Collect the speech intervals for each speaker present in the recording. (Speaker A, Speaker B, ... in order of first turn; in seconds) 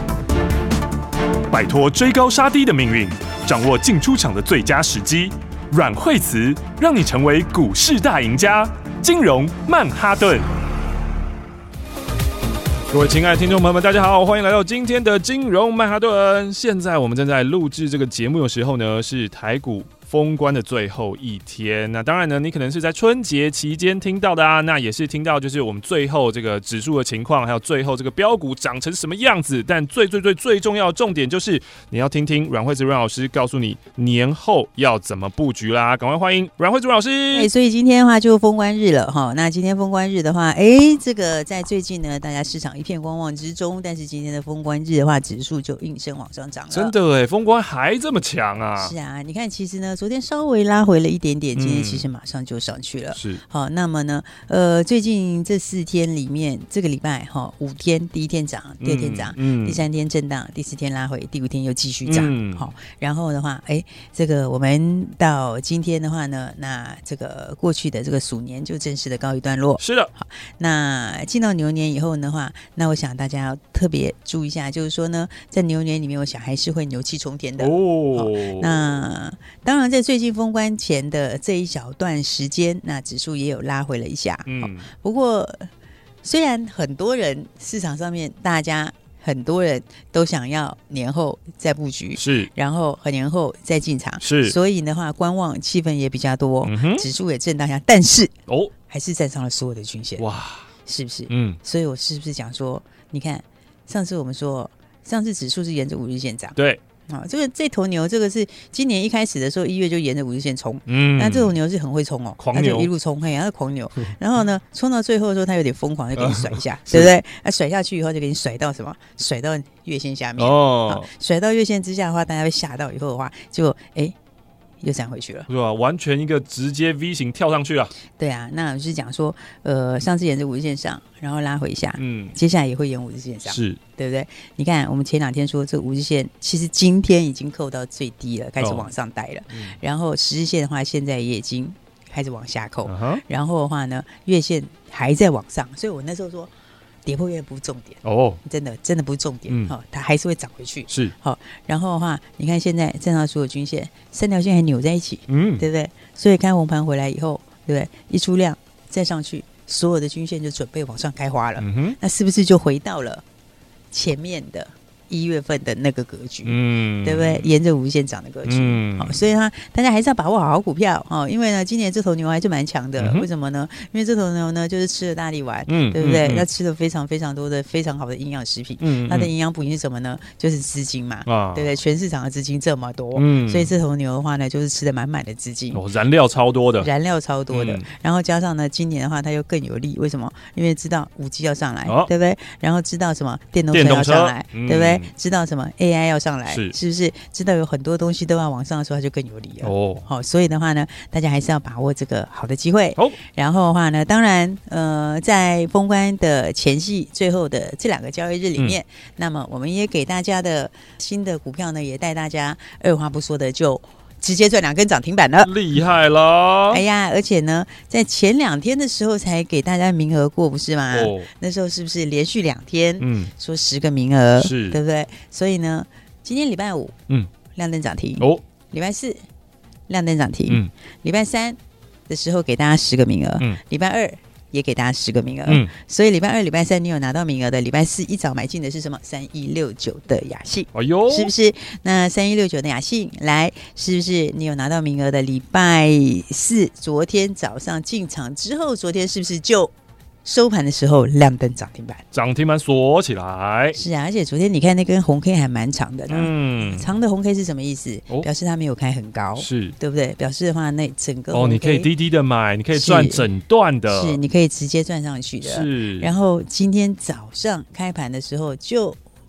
Speaker A: 1.5-10.5, 12.9-37.5, 46.7-48.9, 51.5-52.1, 53.1-53.4, 58.8-59.8, 62.0-62.7, 69.8-70.1, 77.6-79.0, 84.5-84.9, 92.2-92.5, 94.2-94.5, 96.6-97.0, 100.2-100.7, 101.3-101.6, 106.5-106.8, 110.9-111.5, 112.4-112.9, 116.2-117.1, 120.4-121.1, 125.5-127.9, 132.0-132.3, 133.4-133.8, 138.6-138.9, 139.5-139.8, 142.8-143.2, 148.0-148.4, 149.5-149.7, 155.3-155.7, 161.6-162.0, 166.4-167.5, 168.5-169.2, 173.0-173.3, 175.7-176.4, 178.8-179.3, 181.2-181.7, 183.1-183.7, 185.7-186.9, 187.5-187.9, 191.8-192.1, 193.7-195.1, 196.5-196.7, 199.6-200.0, 215.4-216.8, 220.9-221.3, 223.0-223.3, 224.4-224.8, 235.5-235.7, 240.7-241.3, 252.1-253.8, 256.1-256.9, 259.4-259.7, 261.3-264.2, 265.4-266.1
Speaker B: 37.3-46.9, 48.8-85.7, 86.2-98.3, 98.9-100.2, 100.8-106.6, 107.1-124.2, 124.8-125.5, 128.1-146.5, 147.0-163.2, 163.9-185.8, 186.8-215.5, 216.7-226.9, 227.5-229.2, 229.9-249.7, 250.2-252.0, 253.8-261.9, 262.7-263.2, 263.9-269.0